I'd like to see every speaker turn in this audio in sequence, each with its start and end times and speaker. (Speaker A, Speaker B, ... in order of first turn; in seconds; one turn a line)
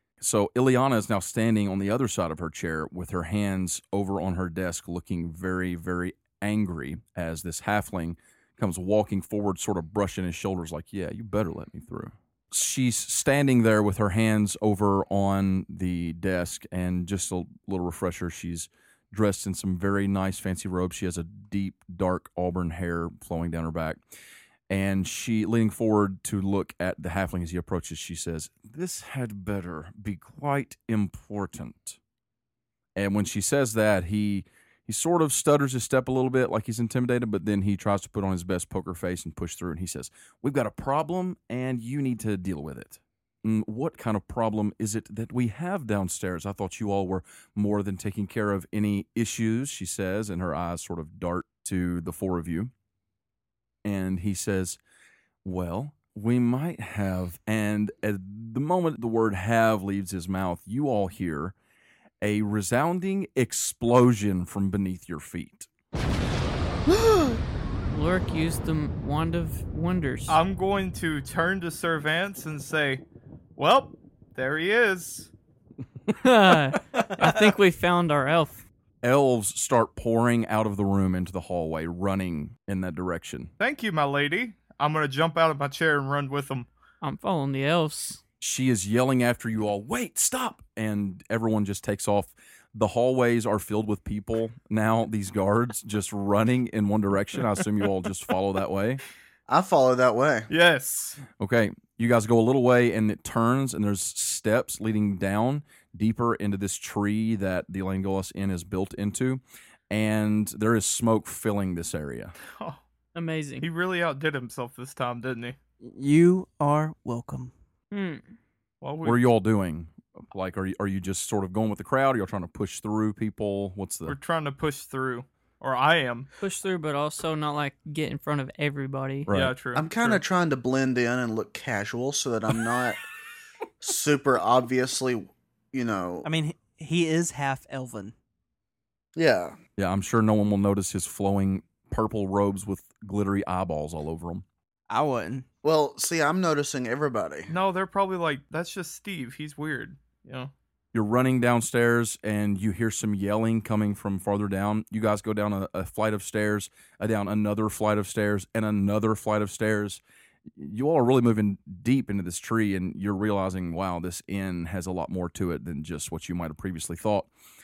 Speaker A: 0.2-24.0
Speaker A: 24.7-32.0
Speaker A: 33.0-52.7
Speaker A: 53.8-54.8
Speaker A: 55.4-61.5
Speaker A: 62.2-65.7
Speaker B: 67.9-70.4
Speaker C: 70.3-73.0
Speaker C: 73.5-75.3
Speaker B: 76.1-78.6
Speaker A: 79.0-83.5
Speaker C: 83.6-86.7
Speaker B: 87.0-88.2
Speaker A: 88.4-99.0
Speaker D: 99.5-100.5
Speaker C: 100.5-101.2
Speaker A: 101.3-112.3
Speaker C: 112.5-112.8
Speaker B: 113.1-113.7
Speaker C: 113.6-115.5
Speaker E: 115.8-117.5
Speaker B: 117.9-118.3
Speaker C: 118.8-119.2
Speaker A: 119.0-124.2
Speaker C: 124.0-126.3
Speaker B: 126.4-129.3
Speaker A: 129.3-129.6
Speaker C: 129.3-130.2
Speaker D: 129.7-133.0
Speaker D: 133.8-136.3
Speaker E: 136.2-138.1
Speaker D: 139.2-139.6
Speaker A: 139.8-144.4
Speaker E: 144.9-145.4
Speaker D: 145.6-147.5
Speaker C: 147.5-150.5
Speaker A: 150.9-167.3